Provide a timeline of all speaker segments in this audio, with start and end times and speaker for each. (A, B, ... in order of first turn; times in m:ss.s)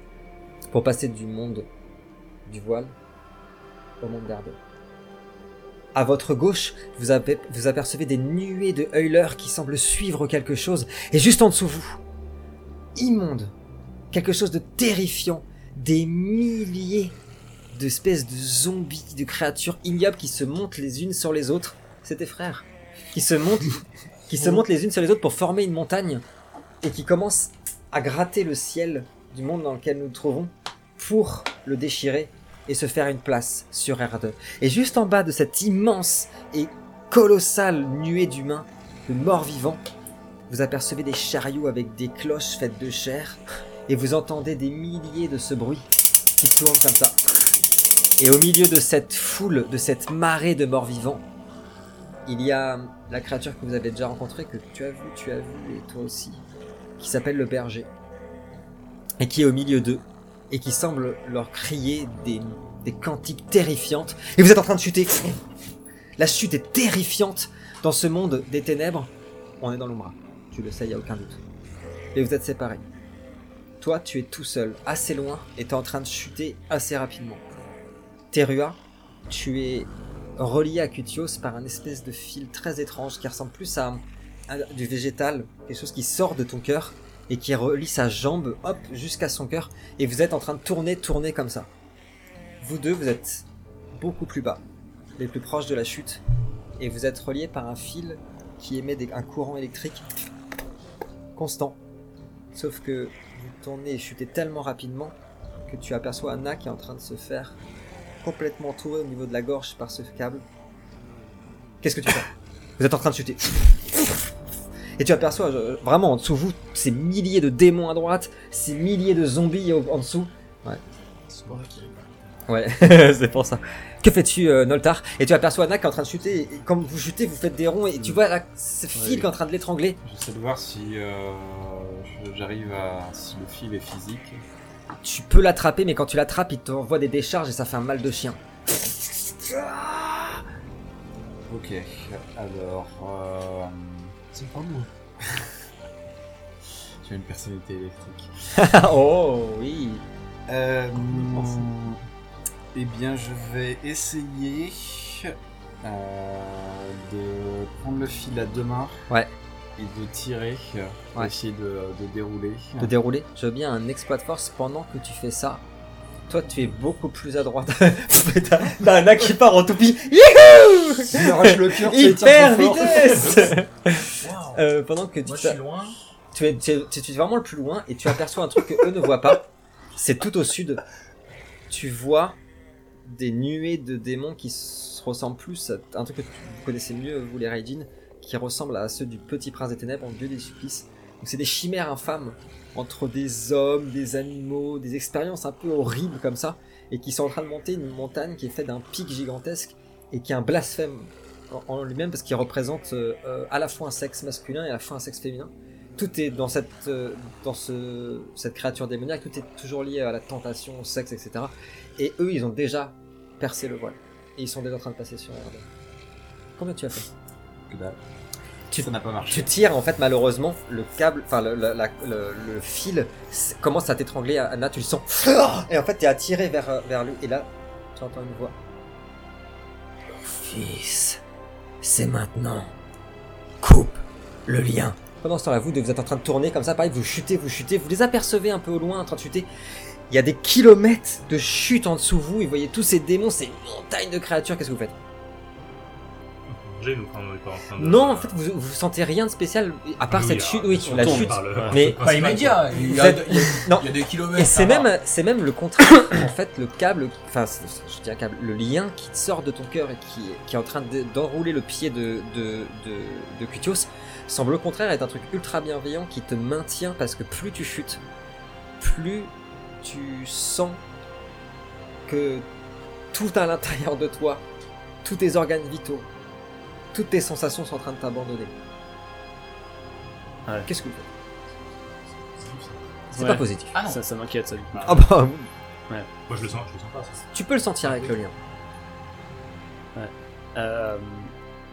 0:00.7-0:01.7 A
0:02.5-0:02.9 A
0:04.0-0:04.6 A
0:06.0-0:12.0 A
0:13.0-0:13.5 A
0:14.1-0:17.2 A
0:17.7-0:26.2 A
0:26.8-0:39.8 A
0:40.5-0:47.2 A
0:48.2-0:51.2 A
0:52.3-0:56.4 A
0:57.0-0:57.9 A
0:59.2-1:05.4 A
1:06.2-1:11.4 A
1:12.1-1:12.8 A
1:13.8-1:17.4 A
1:18.3-1:31.7 A
1:32.6-1:34.6 A
1:35.2-1:36.2 A
1:36.8-1:40.1 A
1:41.4-1:41.8 A
1:42.5-1:47.6 A
1:48.2-1:50.4 A
1:51.8-1:54.3 A
1:55.0-2:00.8 A
2:01.4-2:01.9 B
2:02.5-2:10.0 A
2:09.0-2:09.2 C
2:10.0-2:14.4 D
2:15.0-2:18.4 A
2:19.4-2:20.4 A
2:21.5-2:24.2 D
2:24.3-2:24.9 E
2:27.0-2:28.3 D
2:28.6-2:30.0 A
2:30.5-2:32.0 D
2:32.7-2:39.0 D
2:39.8-2:42.9 D
2:42.8-2:45.6 A
2:46.3-2:55.6 A
2:51.1-2:53.5 E
2:54.2-2:54.6 B
2:55.2-2:56.0 B
2:56.3-3:00.8 A
3:01.7-3:02.4 A
3:03.0-3:35.7 A
3:36.6-3:37.1 A
3:37.7-3:38.0 D
3:38.7-3:48.6 A
3:38.8-3:39.5 D
3:50.1-3:51.2 A
3:51.8-3:52.7 A
3:53.6-3:59.5 A
4:00.1-4:05.0 A
4:06.5-4:08.4 F
4:07.8-4:12.0 A
4:10.0-4:12.8 F
4:10.9-4:11.8 C
4:12.0-4:14.9 B
4:12.7-4:28.0 A
4:28.8-4:30.8 A
4:32.1-4:32.5 A
4:33.1-4:34.4 A
4:35.0-4:36.1 A
4:36.9-4:38.5 A
4:40.7-4:41.0 A
4:42.2-4:43.0 F
4:43.1-4:43.8 A
4:43.2-4:44.8 C
4:43.7-4:44.0 B
4:44.7-4:45.1 F
4:44.8-4:45.5 A
4:46.3-4:47.3 F
4:47.3-4:48.4 A
4:50.0-4:51.3 C